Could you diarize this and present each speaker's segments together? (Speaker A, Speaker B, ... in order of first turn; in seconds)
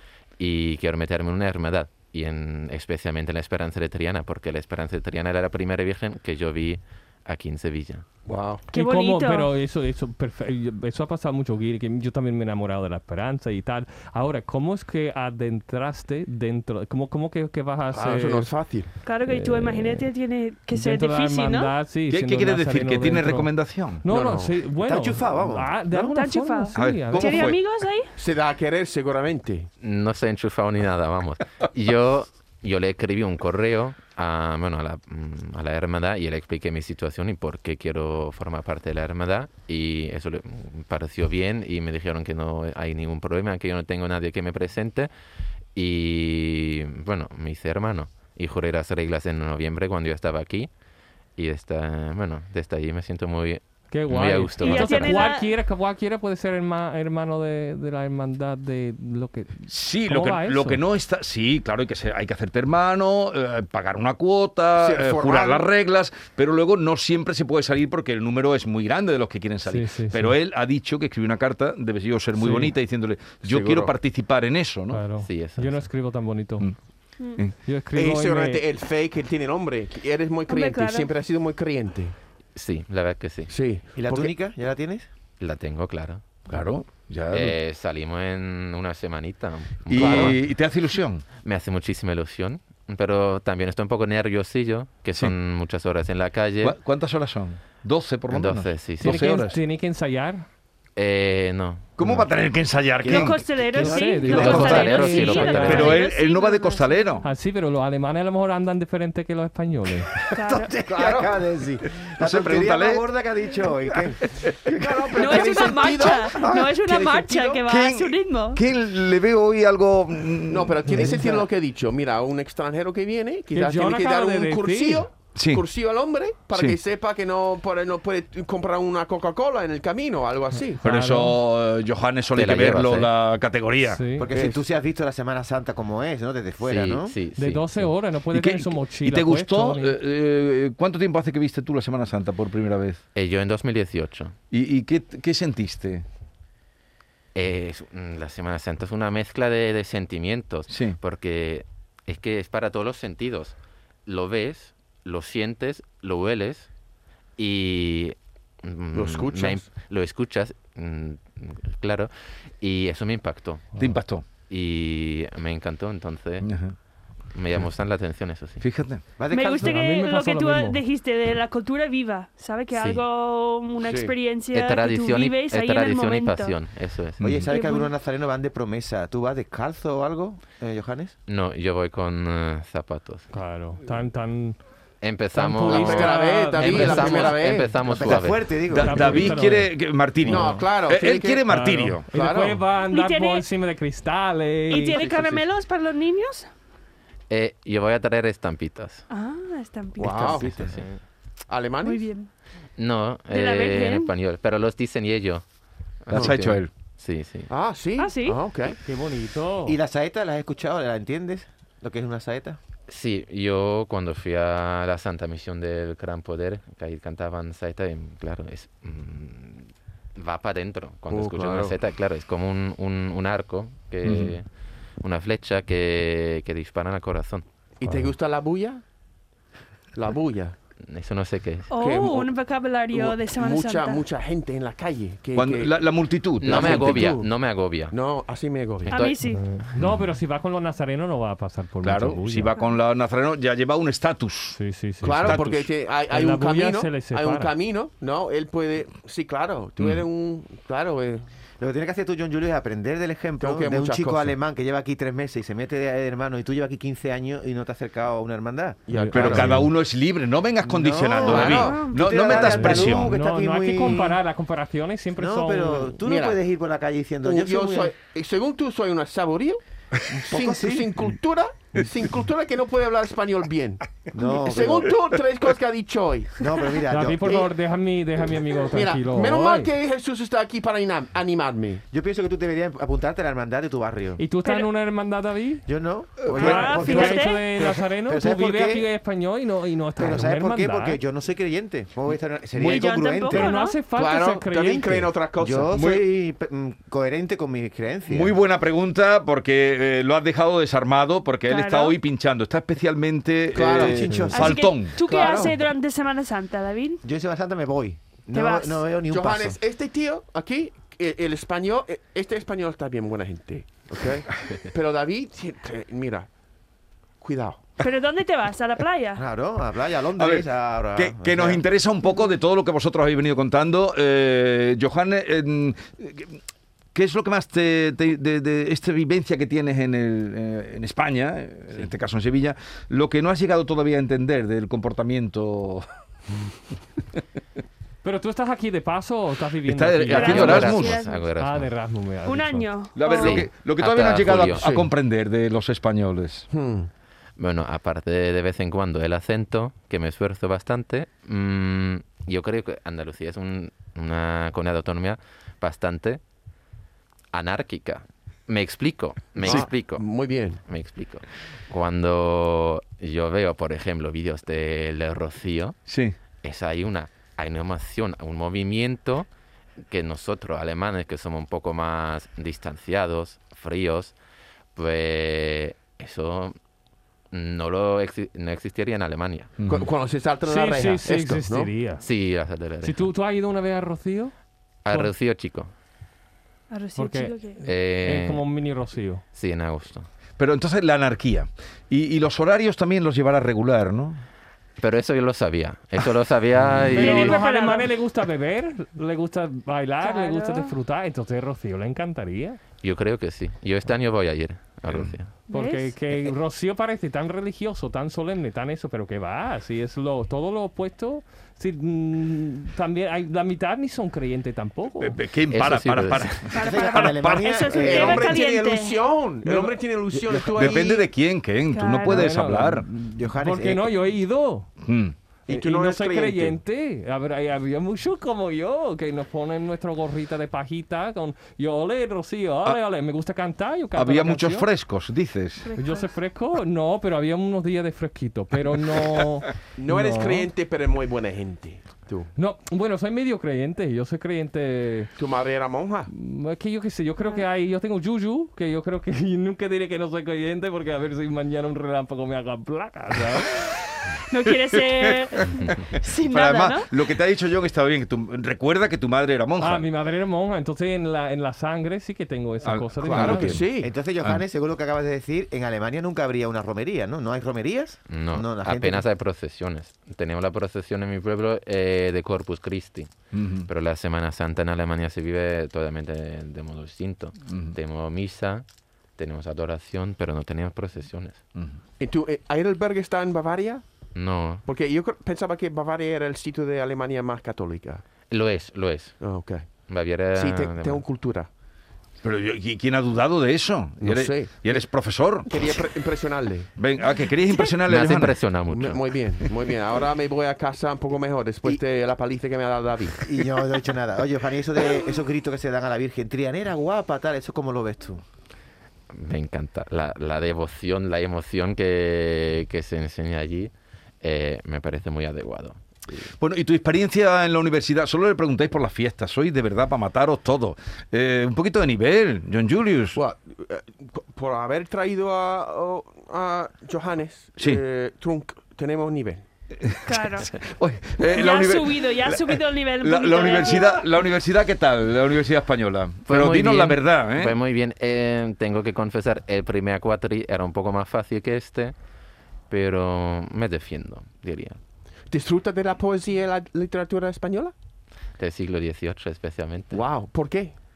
Speaker A: 0.4-8.0, 29.8-45.1, 45.8-50.7, 51.4-55.2, 75.2-75.8, 82.5-83.5, 85.4-86.2, 87.3-90.4, 91.4-96.8, 98.3-99.3, 101.0-102.2, 104.2-106.0, 132.3-133.1, 136.6-137.9, 143.1-144.3, 147.3-153.6, 154.1-156.7, 157.4-163.7, 164.5-166.5, 167.3-168.6, 172.7-173.0, 174.5-177.2, 181.3-183.3, 185.0-188.5, 197.3-199.0, 200.0-201.0, 202.8-205.4, 206.0-207.5, 212.9-224.4, 225.0-227.4, 230.8-231.7, 236.4-238.0, 238.9-239.2, 340.2-341.7, 343.1-344.7, 347.4-356.2, 357.3-365.8, 366.4-369.3, 369.9-374.1, 374.8-376.5, 377.3-379.5, 382.0-383.1, 384.8-385.7, 387.6-388.5, 389.3-390.1, 394.8-397.4, 402.8-405.3, 415.5-416.4, 468.1-473.1, 473.6-478.6, 479.2-481.4, 484.1-484.6, 488.3-489.2, 489.9-491.0, 497.8-499.1, 509.1-513.7, 514.2-516.2, 536.3-541.9, 542.7-544.8, 548.4-550.0
Speaker B: 8.2-8.6, 17.9-18.9, 24.1-24.6, 28.2-29.7, 64.7-65.7, 73.4-73.9, 77.9-82.1, 83.5-84.3, 89.9-90.4, 110.9-111.3, 114.7-117.6, 120.5-130.8, 134.3-134.6, 158.9-159.7, 173.8-174.1, 185.7-188.2, 190.2-191.5, 192.1-192.6, 194.7-195.4, 200.0-200.5, 201.5-202.1, 207.5-208.8, 221.1-221.8, 227.8-228.8, 229.9-230.6, 231.8-232.3, 232.9-235.8, 236.4-237.3, 237.9-239.0, 245.0-251.3, 253.4-254.3, 258.9-259.7, 261.2-261.9, 266.0-266.4, 267.2-269.6, 270.2-276.4, 278.7-281.8, 293.9-296.0, 303.5-304.3, 305.0-305.6, 309.1-316.3, 317.2-317.7, 344.4-344.9, 346.5-346.9, 359.4-360.6, 379.6-381.7, 417.6-421.1, 425.5-426.6, 439.8-442.3, 445.2-446.1, 463.0-463.9, 482.0-483.8, 484.6-488.0, 489.2-489.7, 490.3-491.5, 494.0-494.9, 495.4-496.7, 498.7-503.2, 523.1-529.4, 545.3-547.7, 549.9-550.8
Speaker C: 8.7-9.5, 19.0-21.8, 26.1-28.1, 54.6-55.5, 77.2-77.4, 80.5-81.1, 103.0-107.2, 110.3-110.8, 115.2-118.6, 169.3-176.6, 177.4-177.9, 192.9-193.4, 194.7-196.5, 199.1-200.3, 201.8-202.3, 203.3-204.1, 208.0-208.4, 231.7-234.0, 238.9-239.4, 261.3-262.0, 284.4-284.7, 286.4-287.5, 292.6-293.8, 301.5-302.0, 304.3-307.0, 308.3-308.8, 317.8-319.2, 340.1-341.3, 342.2-343.5, 386.7-387.6, 396.9-397.9, 400.0-400.7, 405.5-405.9, 416.5-419.0, 421.7-422.4, 435.6-436.1, 454.3-456.9, 530.1-530.5, 531.3-534.0
Speaker D: 8.7-18.5, 19.2-20.1, 20.7-27.5, 53.9-60.8, 69.6-70.3, 72.3-72.7, 74.9-76.7, 77.6-78.6, 99.0-100.5, 103.8-106.0, 107.2-110.1, 120.9-121.2, 123.5-125.0, 130.8-131.4, 133.8-134.3, 137.4-140.0, 169.6-170.8, 183.3-184.6, 185.3-187.4, 188.8-190.7, 191.5-195.0, 208.8-209.8, 239.3-242.5, 244.5-245.4, 246.1-247.5, 258.9-259.6, 262.3-266.0, 276.9-279.7, 284.2-285.7, 286.4-291.0, 293.3-295.1, 338.0-342.7, 380.4-382.1, 382.8-384.3, 384.9-385.1, 386.9-389.2, 396.9-402.6, 405.5-415.2, 422.1-424.7, 425.5-434.7, 435.7-440.5, 442.3-445.1, 446.1-453.6, 459.6-463.6
Speaker E: 22.1-24.1, 26.7-27.6, 59.7-75.0, 86.5-87.6, 89.9-91.2, 96.6-99.6, 102.0-104.8, 105.5-107.2, 112.2-113.0, 117.7-121.0, 125.3-125.6, 126.5-126.8, 130.8-134.0, 138.3-143.0, 144.5-146.0, 150.7-151.0, 163.8-164.2, 166.4-166.7, 168.6-169.0, 188.7-192.1, 206.1-206.7, 224.0-224.3, 235.3-236.9, 241.8-244.6, 245.1-245.7, 259.1-263.1, 286.3-286.6, 298.1-305.0, 320.2-326.4, 326.9-335.8, 339.6-341.0, 342.9-346.4, 359.4-359.7, 365.9-366.1, 379.6-379.9, 390.4-394.2, 404.9-405.1, 415.0-417.6, 420.5-422.9, 424.8-425.1, 433.9-435.6, 454.4-455.5, 456.0-459.9, 462.6-463.6, 473.3-473.7, 477.5-477.7, 492.2-495.7, 496.8-498.4, 516.4-523.2, 529.8-537.6
Speaker F: 24.8-26.1, 84.0-85.1, 103.0-103.3, 110.4-115.8, 121.0-121.4, 134.2-137.2, 169.2-169.7, 177.2-181.1, 187.8-189.4, 200.4-200.7, 209.6-212.6, 251.6-258.8, 260.6-264.2, 265.2-267.9, 270.1-270.9, 274.1-274.9, 276.4-277.5, 281.9-284.2, 285.7-288.9, 290.0-293.5, 295.4-298.4, 303.7-304.6, 307.0-309.6, 319.2-321.6, 416.6-418.2, 420.1-420.9, 422.9-423.9, 463.8-469.1, 503.2-508.2